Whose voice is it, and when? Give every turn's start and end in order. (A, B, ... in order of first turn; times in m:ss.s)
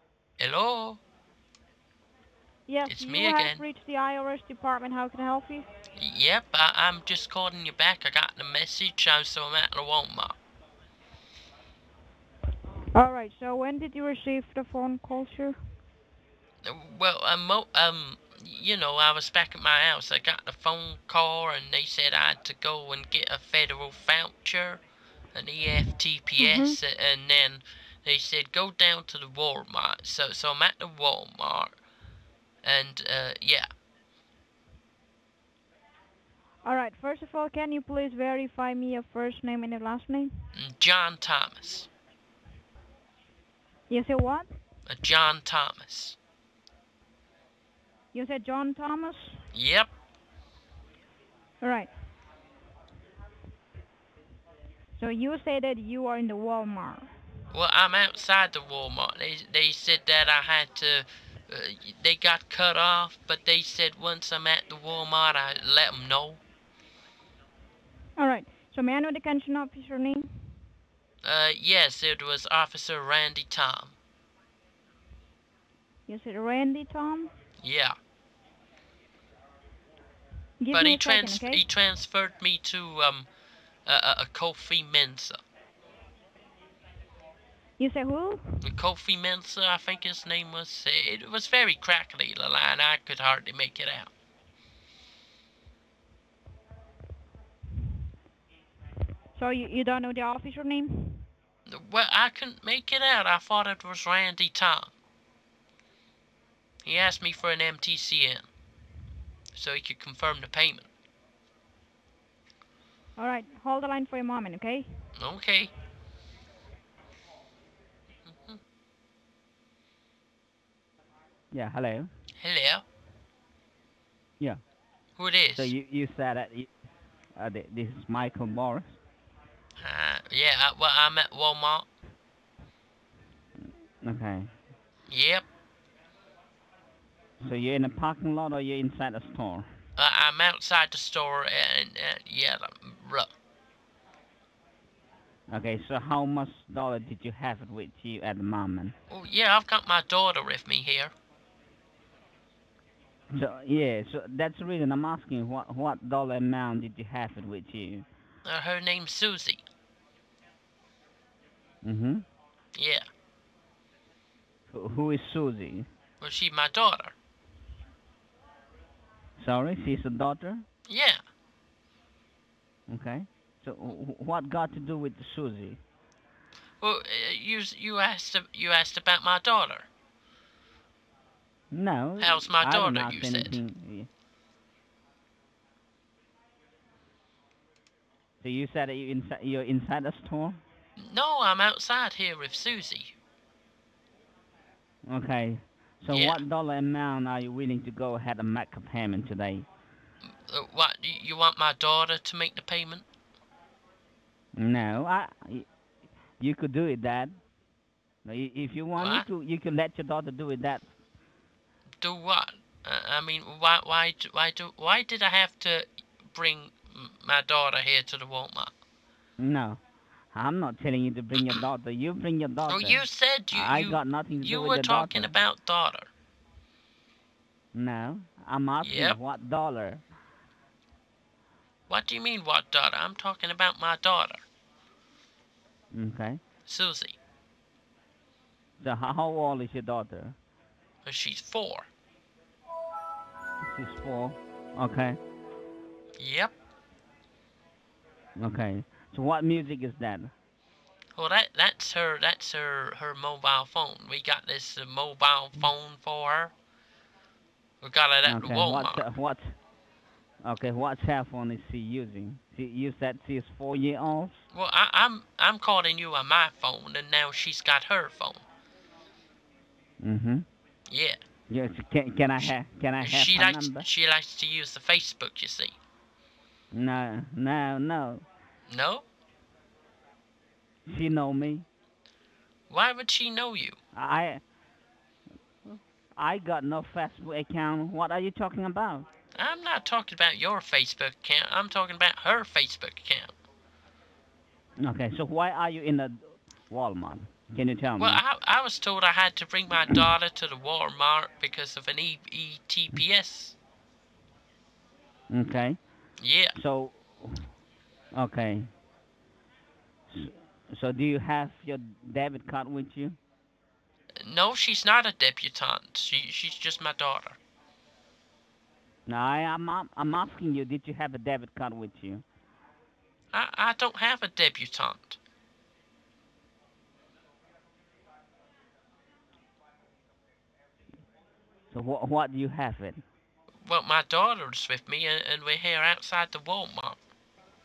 0:00.4-0:01.0 A
0:02.7-0:05.7 B
0:02.8-0:03.6 A
0:06.0-0:10.4 A
0:12.9-0:15.6 B
0:16.6-0:24.8 A
0:25.3-0:31.8 A
0:26.4-0:26.8 B
0:32.6-0:33.7 A
0:36.6-0:40.4 B
0:40.5-0:41.9 A
0:43.9-0:44.5 B
0:44.8-0:46.2 A
0:48.1-0:49.4 B
0:49.5-0:49.9 A
0:51.6-0:51.9 B
0:55.0-0:57.1 B
0:57.5-1:06.4 A
1:08.2-1:10.6 B
1:11.2-1:14.0 A
1:16.1-1:17.3 B
1:17.6-1:17.9 A
1:20.6-1:21.6 B
1:20.7-1:23.3 A
1:23.8-1:25.4 A
1:27.8-1:28.6 B
1:28.6-1:34.1 A
1:39.3-1:41.3 B
1:41.6-1:44.9 A
1:46.8-1:48.4 A
1:49.5-1:50.9 A
1:53.2-1:55.1 B
1:55.2-1:55.7 A
1:58.3-1:58.6 A
2:01.5-2:02.1 C
2:02.4-2:02.8 A
2:05.2-2:05.7 A
2:05.6-2:06.7 C
2:07.4-2:09.0 C
2:09.8-2:11.9 A
2:14.0-2:14.5 C
2:15.1-2:15.4 A
2:17.4-2:19.6 C
2:20.0-2:23.3 A
2:25.5-2:28.9 C
2:29.1-2:31.1 A
2:33.3-2:38.0 C
2:38.4-2:39.6 A
2:41.8-2:42.2 C
2:42.7-2:43.1 A
2:44.7-2:45.9 C
2:46.2-2:47.1 A
2:49.4-2:50.6 C
2:50.9-2:51.2 A
2:52.9-2:55.8 C
2:56.8-2:59.9 A
3:01.7-3:04.1 C
3:02.2-3:03.6 A
3:08.4-3:10.6 C
3:11.0-3:13.1 A
3:15.1-3:19.6 C
3:16.1-3:16.4 A
3:20.5-3:23.0 A
3:24.6-3:25.7 C
3:26.4-3:27.4 C
3:28.2-3:30.8 C
3:29.0-3:29.3 A
3:32.0-3:38.7 A
3:39.4-3:39.8 C
3:40.3-3:45.4 C
3:42.7-3:46.1 A
3:47.7-3:50.0 C
3:48.8-3:49.2 A
3:51.9-3:54.4 A
3:55.9-3:56.4 C
3:56.7-3:57.2 A
3:58.8-4:00.4 C
4:01.0-4:01.9 A
4:03.6-4:05.2 C
4:06.2-4:06.5 A
4:08.4-4:10.3 C
4:11.1-4:16.5 A
4:17.8-4:19.0 A
4:18.2-4:19.5 C
4:20.4-4:24.4 C
4:24.5-4:28.4 A
4:30.0-4:30.4 C
4:30.9-4:31.2 A
4:31.5-4:33.9 C
4:32.4-4:35.8 A
4:36.7-4:38.2 C
4:38.7-4:39.0 A
4:40.9-4:41.6 C
4:42.7-4:43.8 A
4:43.9-4:44.4 C
4:45.7-4:49.0 C
4:49.3-4:53.3 A
4:54.8-4:58.2 C
4:58.0-5:03.6 A
5:05.3-5:05.8 C
5:06.2-5:06.5 A
5:06.6-5:07.5 C
5:08.1-5:08.7 C
5:10.1-5:13.2 C
5:14.2-5:17.4 A
5:19.1-5:22.2 C
5:23.3-5:25.2 A
5:31.7-5:33.0 C
5:33.6-5:37.0 A